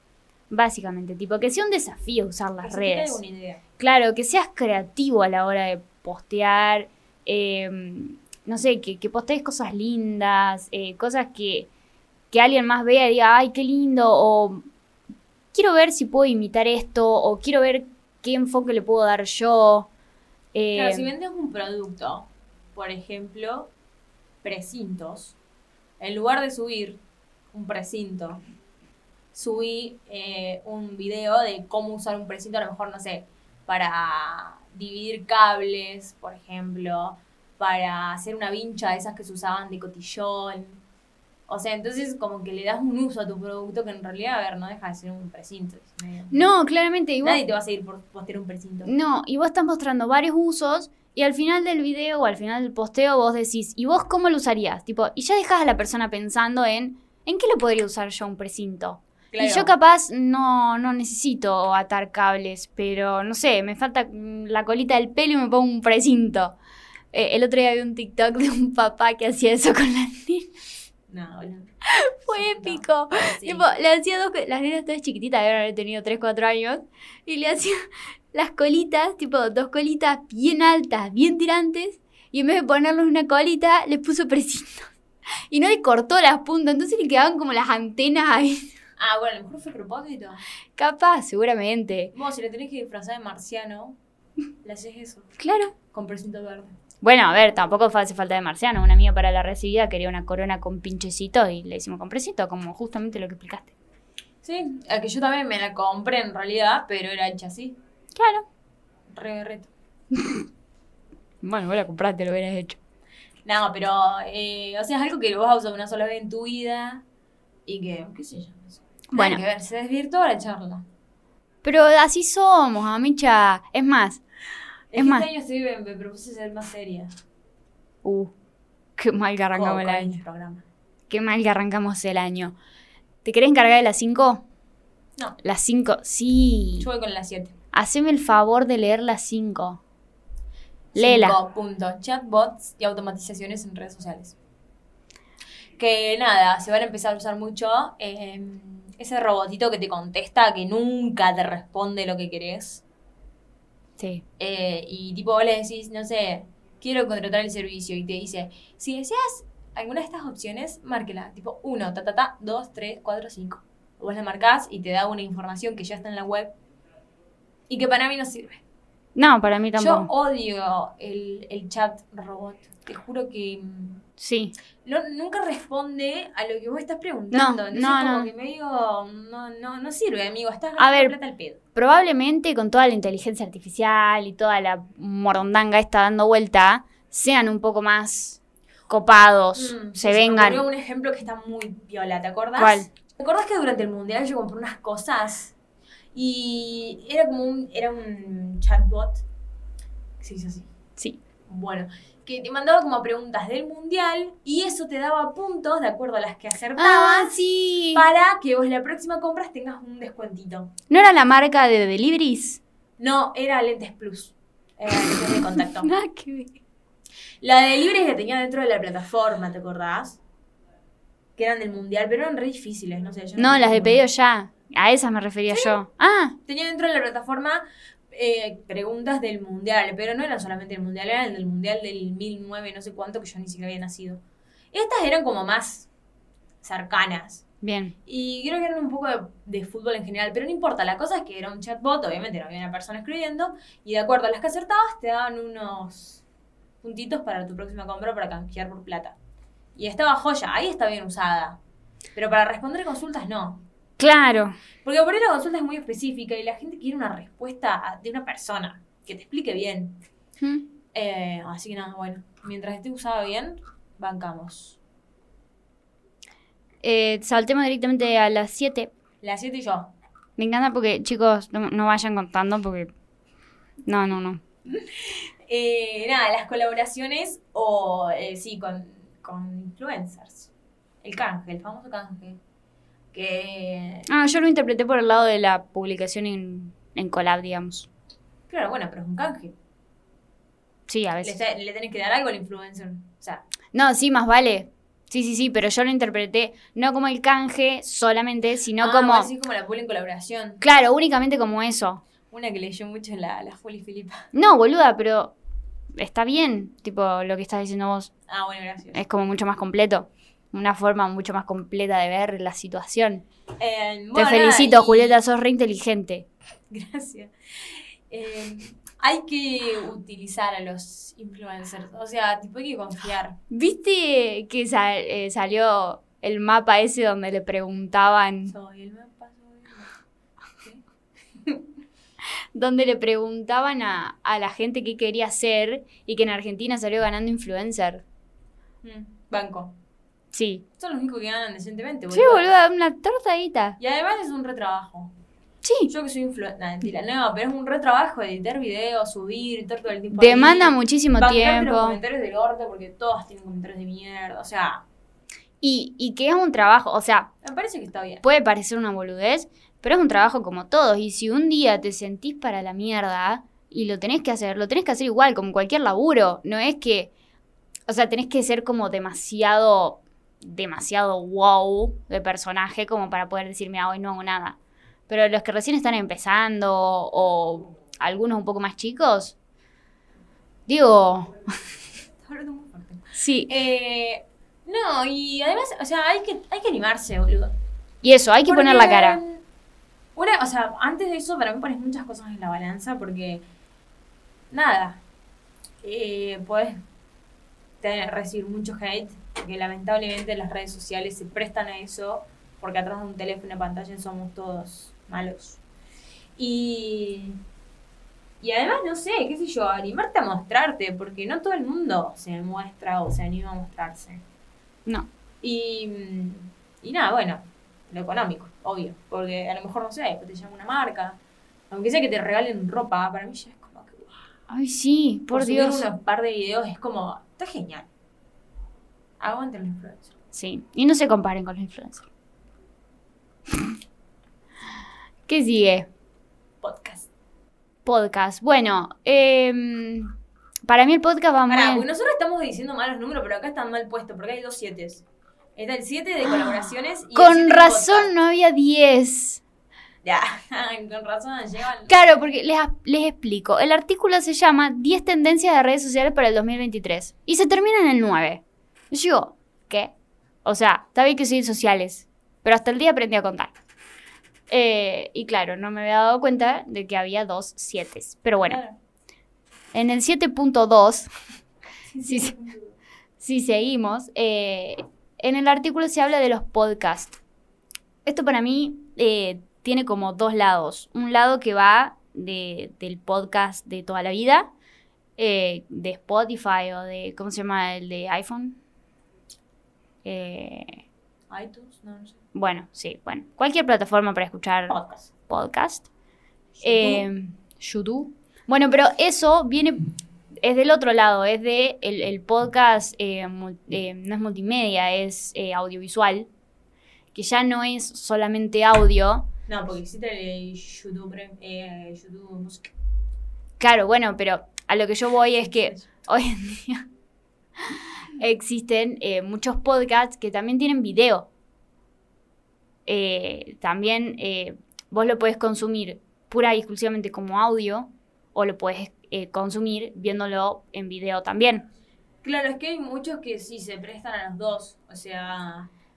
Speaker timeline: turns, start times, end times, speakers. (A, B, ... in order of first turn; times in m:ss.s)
0:00.5-0:03.2 A
0:02.6-0:03.6 B
0:03.8-0:11.7 A
0:12.3-0:14.6 A
0:15.5-0:19.9 A
0:20.5-0:21.1 A
0:20.7-0:23.7 B
0:24.4-0:25.4 B
0:26.0-0:27.0 B
0:27.5-0:28.4 B
0:29.3-0:40.8 B
0:41.5-0:46.5 B
0:46.3-0:47.4 A
0:47.2-0:48.9 B
0:48.8-1:06.6 A
0:59.3-0:59.7 B
1:07.1-1:10.5 A
1:11.1-1:11.7 B
1:11.9-1:24.9 A
1:12.3-1:13.6 B
1:25.5-1:28.7 A
1:29.0-1:30.4 B
1:30.8-1:32.1 A
1:32.1-1:34.0 B
1:34.6-1:35.3 B
1:35.4-1:35.7 A
1:35.9-1:36.7 B
1:37.0-1:43.7 A
1:44.4-1:47.8 B
1:48.2-1:48.5 A
1:49.1-1:49.7 B
1:50.1-1:50.4 A
1:51.4-1:52.8 A
1:53.4-1:57.0 B
1:57.7-2:00.8 B
1:59.1-1:59.4 A
2:01.6-2:04.2 A
2:04.9-2:07.1 B
2:05.0-2:05.2 A
2:08.0-2:08.3 A
2:09.0-2:10.2 A
2:09.5-2:10.6 B
2:11.1-2:12.6 A
2:13.2-2:14.4 A
2:15.4-2:16.9 A
2:16.8-2:17.5 B
2:17.7-2:19.8 A
2:20.9-2:24.4 B
2:21.0-2:21.4 A
2:25.8-2:32.8 B
2:34.0-2:34.2 A
2:34.4-2:46.5 B
2:47.7-2:48.6 B
2:49.2-2:50.1 A
2:49.8-2:54.0 B
2:54.2-2:54.5 A
2:54.8-3:01.6 B
2:57.3-2:58.3 A
3:00.8-3:01.2 A
3:01.7-3:10.6 A
3:09.5-3:15.5 B
3:12.6-3:12.9 A
3:16.1-3:19.2 B
3:20.2-3:20.7 B
3:21.4-3:27.4 B
3:26.8-3:28.0 A
3:27.9-3:30.7 B
3:30.9-3:32.6 A
3:33.0-3:35.9 B
3:35.6-3:36.6 A
3:37.4-3:40.2 B
3:41.4-3:44.0 B
3:43.4-3:46.4 A
3:45.5-3:45.8 B
3:46.4-3:54.2 B
3:54.7-3:55.9 B
3:56.6-3:57.4 B
3:57.6-3:57.9 A
3:58.0-4:06.2 B
4:06.8-4:09.2 B
4:09.8-4:11.6 B
4:12.2-4:13.6 B
4:14.0-4:14.6 A
4:14.8-4:20.0 B
4:20.9-4:24.8 B
4:26.8-4:28.9 A
4:29.2-4:29.9 B
4:30.4-4:32.9 A
4:33.8-4:34.4 A
4:34.7-4:40.5 B
4:41.0-4:42.4 B
4:43.1-4:44.1 B
4:44.1-4:47.9 A
4:48.5-4:49.5 B
4:50.9-4:51.4 A
4:51.2-4:53.4 B
4:53.7-4:59.3 A
4:58.8-5:00.6 B
5:00.6-5:02.0 A
5:02.3-5:04.3 B
5:04.3-5:05.3 A
5:06.0-5:08.1 A
5:08.3-5:09.0 B
5:08.9-5:13.2 A
5:13.6-5:15.2 B
5:14.1-5:16.3 A
5:16.7-5:23.4 B
5:23.5-5:28.5 A
5:28.4-5:29.9 B
5:32.5-5:38.0 A
5:38.8-5:39.8 B
5:40.3-5:40.6 A
5:40.8-5:42.5 B
5:42.1-5:43.8 A
5:43.8-5:45.1 B
5:45.6-5:45.9 A
5:45.9-5:54.8 B
5:50.1-5:52.0 A
5:55.6-5:57.3 A
5:57.4-5:58.2 B
5:58.2-6:07.1 A
6:07.9-6:14.6 A
6:15.1-6:19.4 A
6:20.7-6:21.4 A
6:22.2-6:27.5 B
6:23.2-6:23.5 A
6:28.0-6:29.2 A
6:28.5-6:29.4 B
6:30.2-6:33.4 B
6:34.5-6:35.0 B
6:35.8-6:36.8 B
6:37.8-6:45.6 B
6:46.4-6:47.4 B
6:48.4-6:54.2 B
6:55.4-7:04.2 B
7:04.5-7:05.8 A
7:05.3-7:07.9 B
7:09.2-7:10.1 B
7:10.3-7:12.0 A
7:15.3-7:15.9 A
7:16.6-7:17.1 B
7:17.8-7:20.1 A
7:20.6-7:21.8 A
7:21.5-7:25.0 B
7:25.6-7:28.1 B
7:27.1-7:29.4 A
7:30.0-7:32.2 B
7:31.9-7:39.9 A
7:40.4-7:43.5 A
7:44.5-7:48.6 A
7:48.4-7:48.8 B
7:49.7-7:51.1 A
7:51.9-7:52.7 B
7:52.0-7:52.3 A
7:53.2-7:57.2 A
7:58.0-8:04.5 A
8:05.2-8:08.6 A
8:10.0-8:10.8 A
8:11.3-8:12.2 B
8:12.3-8:15.9 A
8:14.7-8:15.1 B
8:16.6-8:17.0 B
8:16.6-8:19.9 A
8:20.4-8:26.3 A
8:27.1-8:29.3 A
8:29.5-8:32.7 B
8:33.6-8:36.9 A
8:35.4-8:35.8 B
8:37.6-8:41.3 A
8:42.8-8:51.7 A
8:52.2-8:55.7 B